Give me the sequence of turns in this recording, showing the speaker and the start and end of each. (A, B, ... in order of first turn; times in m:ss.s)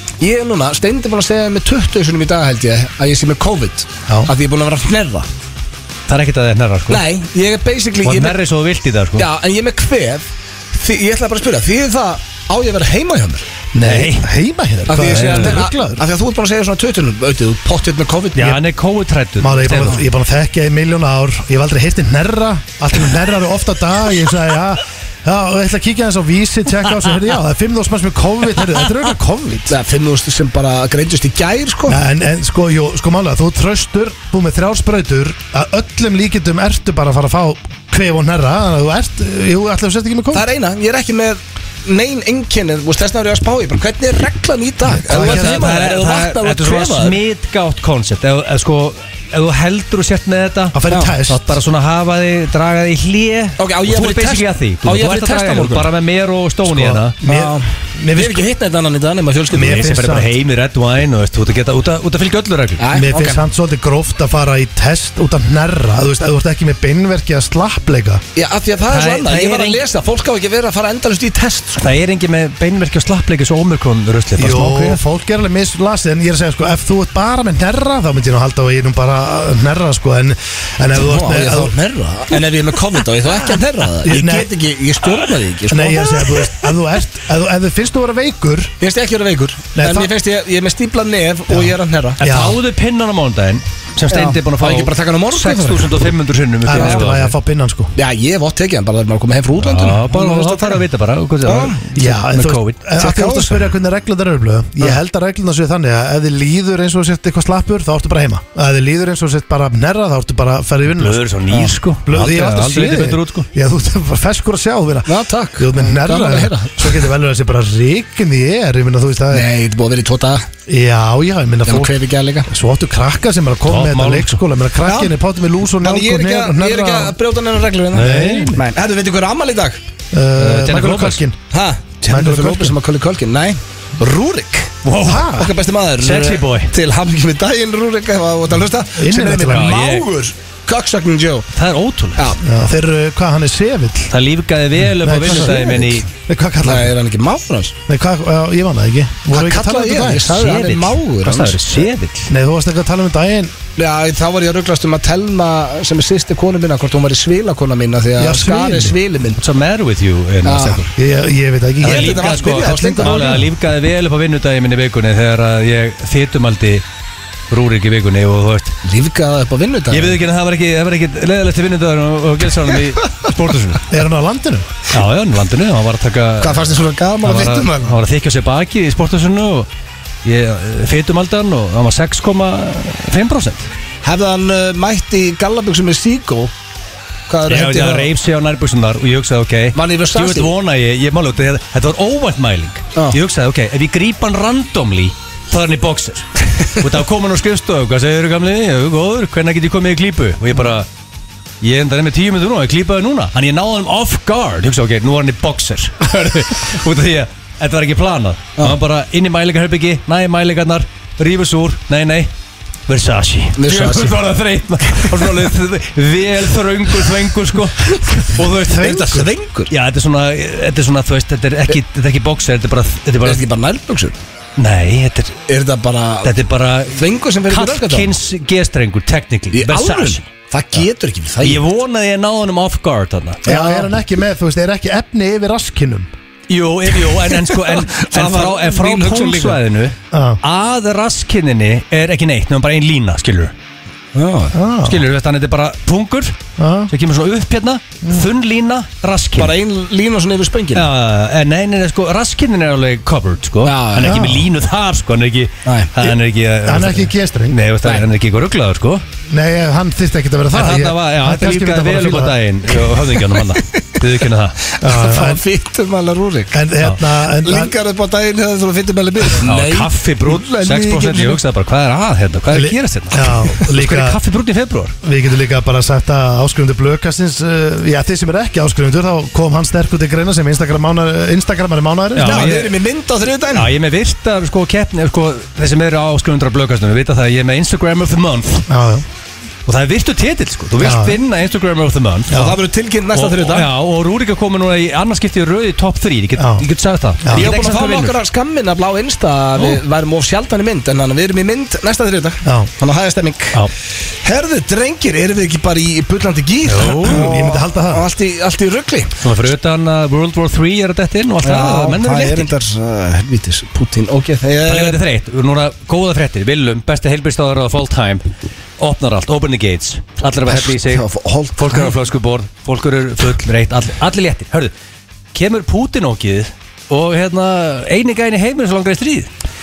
0:00.2-0:05.3 A
0:06.1-0:07.0 B
0:06.9-0:08.4 A
0:08.0-0:09.3 B
0:09.2-0:13.4 A
0:13.7-0:16.0 C
0:13.8-0:14.3 B
0:14.9-0:18.6 A
0:15.0-0:15.6 B
0:18.4-0:20.0 B
0:19.4-0:29.8 C
0:29.7-0:32.0 A
0:31.9-0:40.5 C
0:40.3-0:47.2 A
0:44.9-0:45.7 C
0:45.1-0:57.2 B
0:50.7-0:51.5 C
0:53.6-0:55.9 A
0:56.7-0:58.5 C
0:57.2-1:00.0 A
0:59.5-1:00.3 C
0:59.6-1:02.9 B
1:02.8-1:03.4 A
1:02.9-1:08.2 C
1:08.4-1:11.9 A
1:08.9-1:09.8 B
1:11.8-1:15.0 B
1:14.4-1:21.7 C
1:21.0-1:26.4 A
1:24.0-1:24.5 C
1:25.7-1:28.7 C
1:28.8-1:32.2 A
1:29.8-1:30.1 C
1:31.5-1:32.6 C
1:32.2-1:37.3 B
1:34.1-1:35.9 A
1:36.6-1:37.9 C
1:36.7-1:37.0 A
1:38.0-1:40.8 A
1:39.6-1:42.8 B
1:41.4-1:41.8 A
1:42.0-1:59.5 C
1:43.0-1:43.7 A
1:51.0-1:53.5 B
1:55.1-1:57.0 A
1:59.3-2:00.5 A
2:00.7-2:01.9 C
2:01.7-2:02.5 A
2:02.5-2:07.2 C
2:03.7-2:04.4 B
2:04.8-2:05.1 A
2:05.8-2:09.8 A
2:07.9-2:08.6 B
2:08.0-2:08.6 C
2:10.1-2:11.4 C
2:10.4-2:11.2 B
2:11.5-2:21.5 A
2:12.1-2:12.8 C
2:14.8-2:15.4 B
2:15.0-2:15.5 C
2:16.0-2:16.7 B
2:19.0-2:19.8 C
2:19.3-2:20.1 B
2:21.5-2:22.3 B
2:22.4-2:24.2 C
2:24.1-2:26.0 B
2:24.8-2:27.0 C
2:26.6-2:27.8 A
2:27.9-2:30.4 C
2:29.3-2:31.8 A
2:30.3-2:32.3 B
2:32.3-2:33.6 C
2:33.8-2:39.4 A
2:38.2-2:39.0 C
2:39.4-2:40.9 B
2:40.4-2:40.8 A
2:41.0-2:43.5 C
2:41.8-2:43.3 A
2:41.8-2:46.8 B
2:47.5-2:48.8 B
2:48.8-2:50.2 A
2:49.9-2:53.9 B
2:53.9-2:54.8 C
2:54.9-2:59.7 B
2:56.4-2:58.0 A
3:00.2-3:03.7 B
3:04.0-3:06.5 A
3:07.3-3:08.1 A
3:07.5-3:20.9 B
3:09.8-3:10.5 A
3:21.6-3:32.3 B
3:32.9-3:39.0 B
3:33.6-3:34.2 A
3:34.9-3:35.2 A
3:38.6-3:39.3 C
3:38.7-3:39.7 A
3:39.7-3:43.4 B
3:43.2-3:44.2 A
3:44.6-3:45.4 B
3:45.5-3:46.3 A
3:46.2-3:50.2 B
3:46.9-3:48.1 A
3:49.5-3:51.6 A
3:51.4-3:53.4 B
3:53.5-3:53.9 A
3:53.5-3:56.1 C
3:56.5-4:03.5 B
3:56.9-3:59.6 A
4:00.1-4:00.4 C
4:04.1-4:04.6 A
4:04.5-4:05.0 C
4:04.8-4:06.4 B
4:06.6-4:06.9 C
4:06.9-4:09.6 B
4:09.4-4:10.9 A
4:10.8-4:19.0 B
4:13.6-4:14.2 A
4:14.0-4:14.5 C
4:15.6-4:15.9 A
4:16.6-4:17.6 C
4:19.3-4:22.4 C
4:20.5-4:24.6 B
4:23.7-4:24.0 A
4:24.7-4:26.6 A
4:24.8-4:25.4 C
4:26.5-4:27.7 C
4:27.4-4:31.4 A
4:29.4-4:35.0 B
4:32.5-4:34.2 C
4:35.0-4:42.5 C
4:42.2-4:42.8 B
4:42.2-4:43.7 A
4:43.5-4:48.7 B
4:48.7-4:49.1 C
4:49.7-4:52.4 B
4:50.8-4:51.2 C
4:52.3-4:52.6 C
4:52.3-4:53.7 A
4:53.1-4:58.2 B
4:56.4-4:56.6 C
4:57.2-4:57.5 C
4:57.3-5:09.2 A
5:02.4-5:02.7 C
5:06.7-5:07.3 B
5:07.0-5:08.1 C
5:09.2-5:12.5 B
5:11.4-5:15.0 A
5:14.7-5:18.3 B
5:18.8-5:24.7 B
5:20.5-5:22.0 A
5:25.3-5:29.3 B